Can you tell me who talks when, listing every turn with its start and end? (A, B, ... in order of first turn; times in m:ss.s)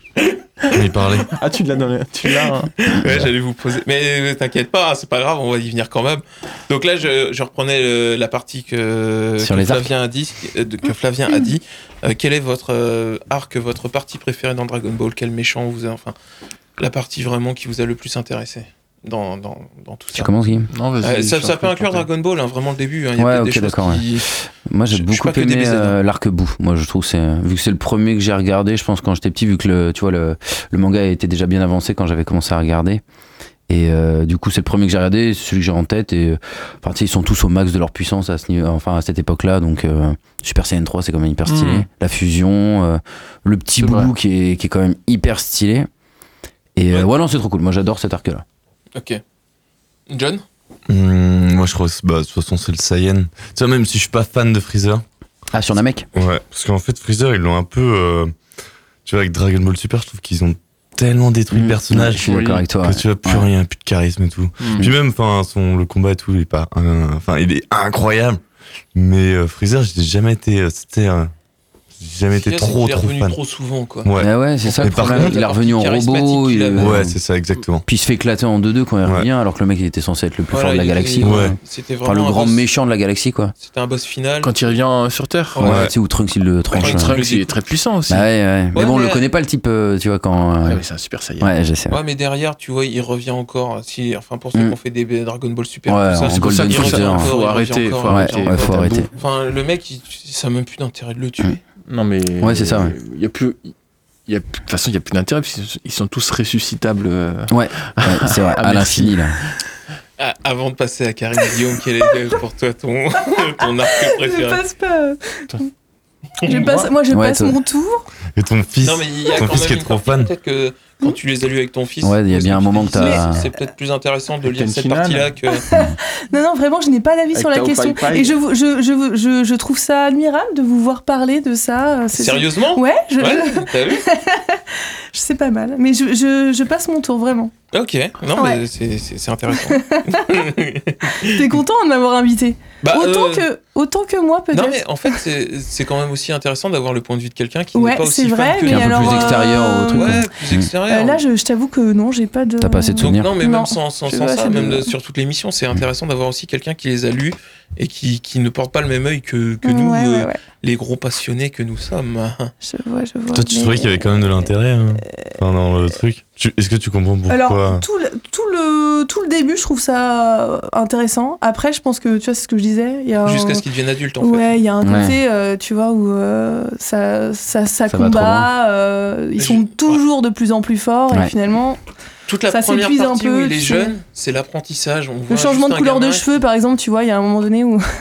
0:00.2-0:00.8 A
0:00.7-0:01.3 B
0:01.3-0:02.7 C
0:02.2-0:16.1 A
0:02.9-0:03.2 D
0:09.4-0:09.9 D
0:16.8-0:20.3 A
0:20.1-0:20.7 D
0:20.7-0:22.1 C
0:21.0-0:24.3 A
0:23.2-0:33.0 D
0:24.9-0:26.0 A
0:33.7-0:45.9 D
0:41.4-0:41.9 C
0:43.8-0:44.1 C
0:46.8-0:48.4 D
0:48.9-0:49.2 A
0:50.1-0:50.4 A
0:50.9-0:55.0 B
0:55.5-0:56.0 D
0:56.1-0:58.3 B
0:59.0-1:08.4 B
1:01.5-1:03.5 D
1:02.1-1:02.6 C
1:04.6-1:04.9 C
1:08.9-1:11.3 B
1:12.0-1:13.4 B
1:12.3-1:14.1 A
1:14.0-1:15.4 B
1:14.2-1:17.2 D
1:15.0-1:17.1 A
1:16.8-1:17.8 B
1:17.8-1:23.5 D
1:20.5-1:22.6 A
1:21.2-1:21.6 B
1:23.6-1:24.5 A
1:24.4-1:25.8 C
1:25.6-1:27.2 D
1:25.6-1:25.9 B
1:26.7-1:27.6 A
1:26.7-1:28.3 C
1:28.1-1:30.8 D
1:28.7-1:29.2 A
1:30.6-1:31.5 C
1:31.4-1:32.0 D
1:31.9-1:41.6 A
1:35.9-1:37.3 D
1:36.3-1:39.1 C
1:38.1-1:39.1 D
1:41.9-1:43.7 C
1:42.4-1:43.0 D
1:44.3-1:49.2 C
1:47.5-1:49.4 D
1:50.2-1:54.6 A
1:53.3-1:55.7 E
1:56.4-1:58.0 E
1:56.4-1:56.9 A
1:57.1-1:57.6 D
1:58.4-2:00.3 B
1:58.8-2:05.6 A
2:02.0-2:03.5 D
2:04.4-2:05.3 C
2:05.7-2:17.5 E
2:07.3-2:08.4 C
2:12.1-2:14.1 A
2:17.7-2:21.6 A
2:18.4-2:18.6 E
2:19.6-2:20.5 E
2:21.1-2:25.1 E
2:22.8-2:23.4 A
2:24.5-2:31.2 A
2:27.7-2:30.2 E
2:28.6-2:30.7 D
2:30.9-2:34.9 E
2:32.6-2:33.3 D
2:33.0-2:42.5 A
2:39.6-2:40.4 E
2:42.6-2:44.5 E
2:43.3-2:47.8 B
2:47.3-2:53.6 E
2:53.2-2:54.5 A
2:54.2-3:01.8 E
2:54.8-2:55.2 D
2:57.9-2:58.5 D
2:59.4-3:00.0 A
3:02.3-3:06.3 A
3:02.5-3:03.9 E
3:05.3-3:07.8 E